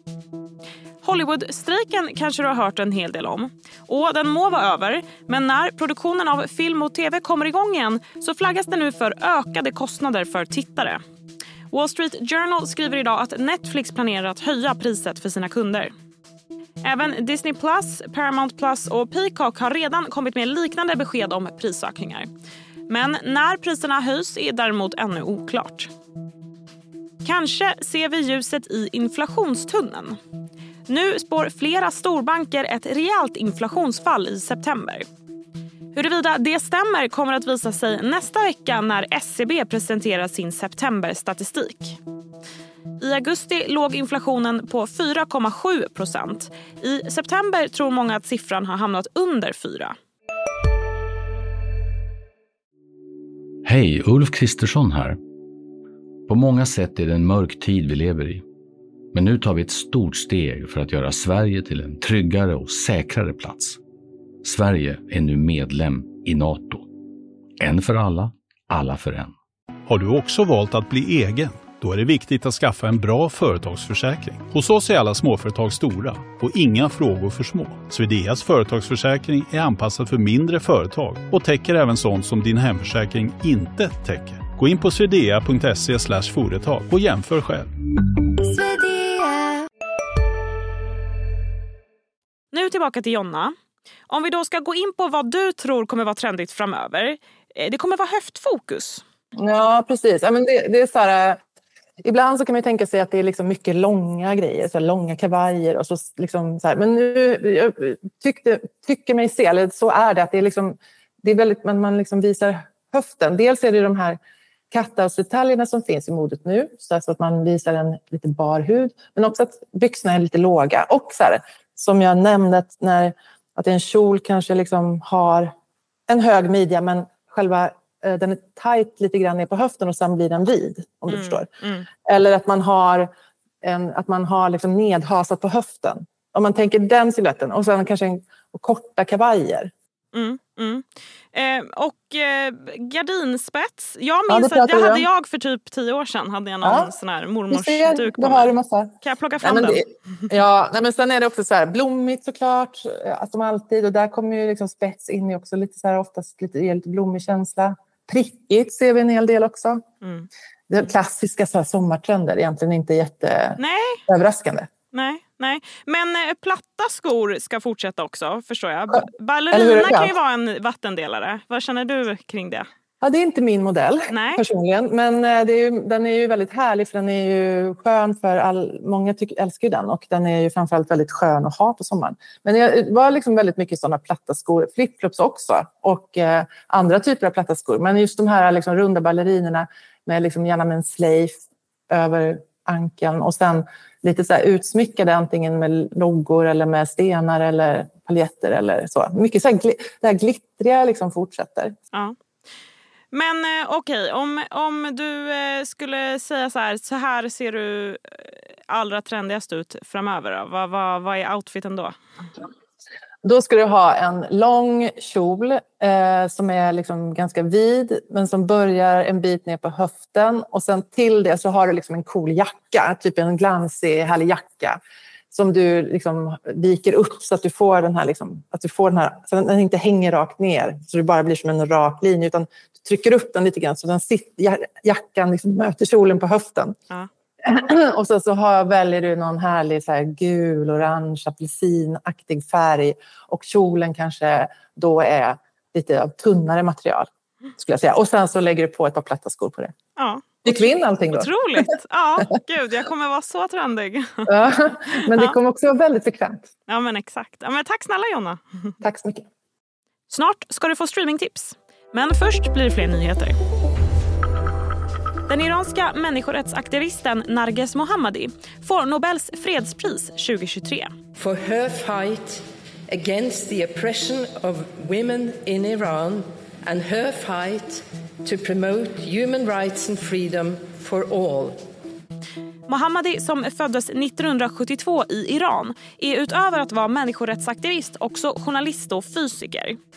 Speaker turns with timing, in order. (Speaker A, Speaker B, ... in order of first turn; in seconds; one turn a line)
Speaker A: 1.0-11.0
Speaker A: 11.7-15.9
Speaker A: 16.8-22.3
Speaker A: 22.9-25.9
Speaker A: 27.2-30.2
Speaker A: 30.9-35.0
Speaker A: 35.9-42.0
Speaker A: 43.0-50.0
Speaker B: 53.6-55.2
Speaker B: 56.3-58.4
Speaker B: 59.1-63.8
Speaker B: 64.4-66.9
Speaker B: 67.6-69.4
Speaker C: 69.9-87.7
Speaker A: 92.5-93.5
Speaker A: 94.1-99.0
Speaker D: 99.4-101.4
Speaker D: 102.0-114.2
Speaker D: 114.7-125.5
Speaker D: 126.1-131.5
Speaker A: 131.1-131.9
Speaker D: 132.1-133.1
Speaker D: 133.6-139.7
Speaker A: 140.1-149.8
Speaker D: 144.3-145.1
Speaker D: 146.6-146.9
Speaker D: 147.5-159.8
Speaker A: 160.0-160.3
Speaker D: 160.7-164.7
Speaker A: 163.6-164.0
Speaker A: 164.9-172.7
Speaker D: 169.5-170.2
Speaker D: 173.0-191.3
Speaker A: 174.1-174.4
Speaker D: 191.9-201.8
Speaker A: 203.1-211.9
Speaker D: 213.2-224.8
Speaker D: 225.3-236.7
Speaker D: 237.4-249.7
Speaker A: 250.0-254.3
Speaker D: 250.4-251.7
Speaker D: 254.3-256.5
Speaker A: 256.7-258.7
Speaker D: 258.8-259.2
Speaker A: 260.1-263.4
Speaker A: 265.3-270.9
Speaker E: 271.2-281.6
Speaker A: 282.7-289.8